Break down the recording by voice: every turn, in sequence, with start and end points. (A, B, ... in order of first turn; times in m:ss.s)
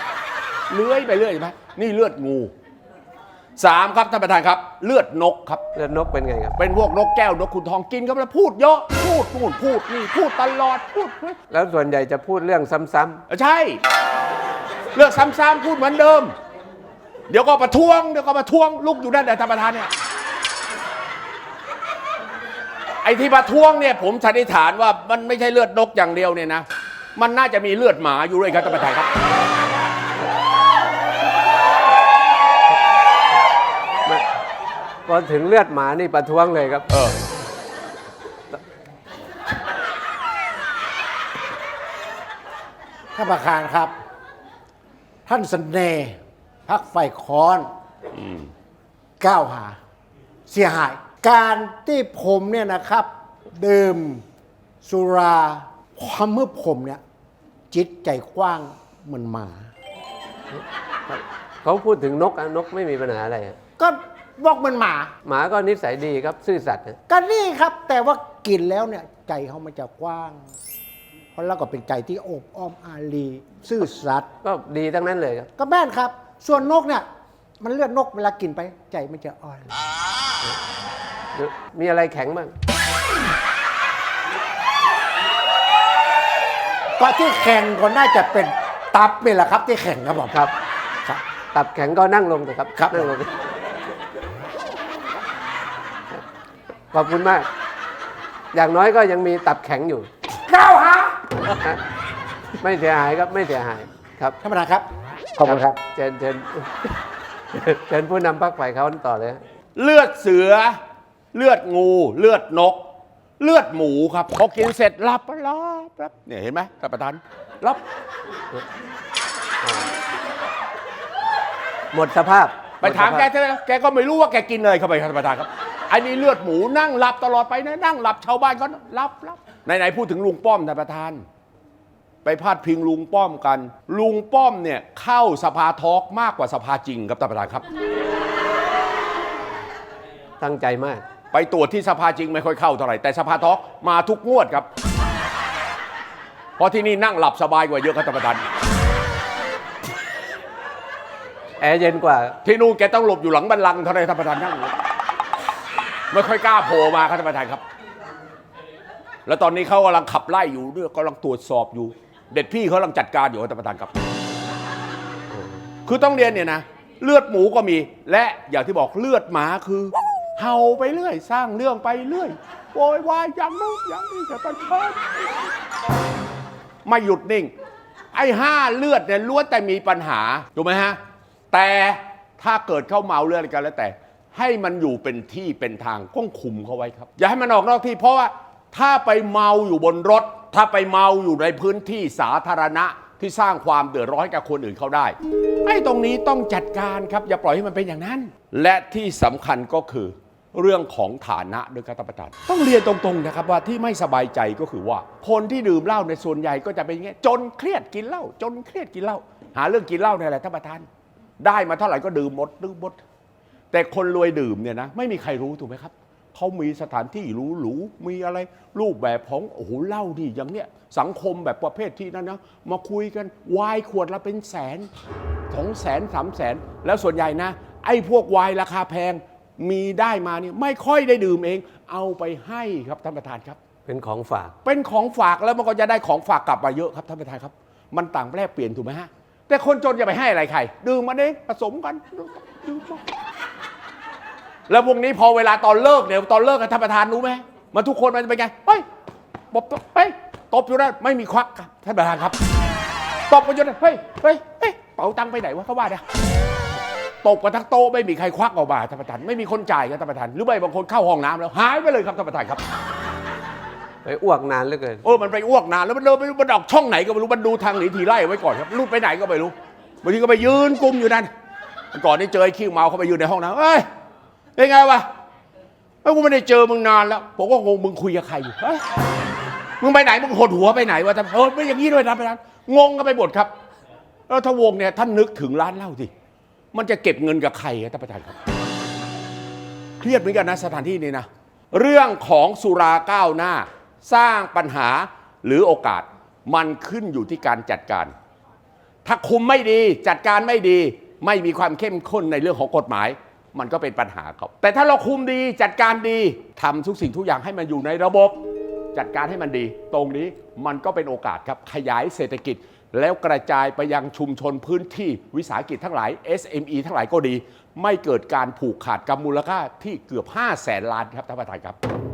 0:00.7-0:02.5 A
0:03.6-0:05.6 A
0:05.8-0:06.6 B
0:06.6-0:11.4 A
0:11.5-0:13.2 B
0:13.3-0:13.8 A
0:14.9-0:16.4 A
0:17.3-0:19.9 A
0:23.0-0:29.1 A
0:35.1-0:36.9 B
0:36.9-0:37.2 A
0:43.2-0:43.9 C
0:45.3-0:47.7 C
0:48.2-0:48.5 A
0:49.2-0:49.8 C
0:50.5-0:54.2 C
0:54.8-0:57.0 C
0:57.7-0:59.7 C
1:00.6-1:03.6 B
1:03.8-1:05.1 C
1:05.2-1:07.0 B
1:07.1-1:10.4 C
1:11.4-1:14.3 C
1:14.4-1:15.5 B
1:15.6-1:17.0 C
1:17.6-1:19.7 C
1:21.4-1:22.6 B
1:27.0-1:30.4 C
1:31.5-1:33.3 B
1:32.8-1:33.0 C
1:36.9-1:37.5 B
1:38.5-1:40.1 B
1:40.5-1:41.2 C
1:42.6-1:44.4 B
1:44.4-1:44.8 C
1:45.4-1:45.8 C
1:45.4-1:47.0 B
1:47.5-1:49.4 B
1:49.8-1:50.8 A
1:51.3-1:52.8 A
1:53.4-1:57.8 A
2:01.9-2:03.3 B
2:02.8-2:11.2 A
2:12.2-2:17.6 A
2:20.4-2:21.0 B
2:21.3-2:24.7 A
2:26.6-2:28.5 A
2:31.6-2:32.4 B
2:32.4-2:34.8 A
2:36.1-2:37.6 A
2:39.3-2:43.9 A
2:45.9-2:55.1 A
2:56.8-2:57.5 A
2:58.1-3:01.0 A
3:01.5-3:30.9 A
3:31.4-3:33.0 A
3:33.7-3:44.9 A
3:45.5-3:53.6 A
3:53.9-3:54.6 B
3:54.6-4:03.0 A
4:04.7-4:08.8 A
4:09.5-4:12.4 A
4:13.3-4:16.0 A
4:17.2-4:22.6 A
4:24.0-4:25.0 B
4:25.0-4:31.3 A
4:31.9-4:33.8 A
4:34.6-4:35.1 A
4:36.0-4:38.8 A
4:39.8-4:43.5 A
4:44.3-4:46.1 A
4:46.7-4:48.4 A
4:50.0-4:58.1 A
4:59.0-5:08.4 A
5:08.9-5:21.8 A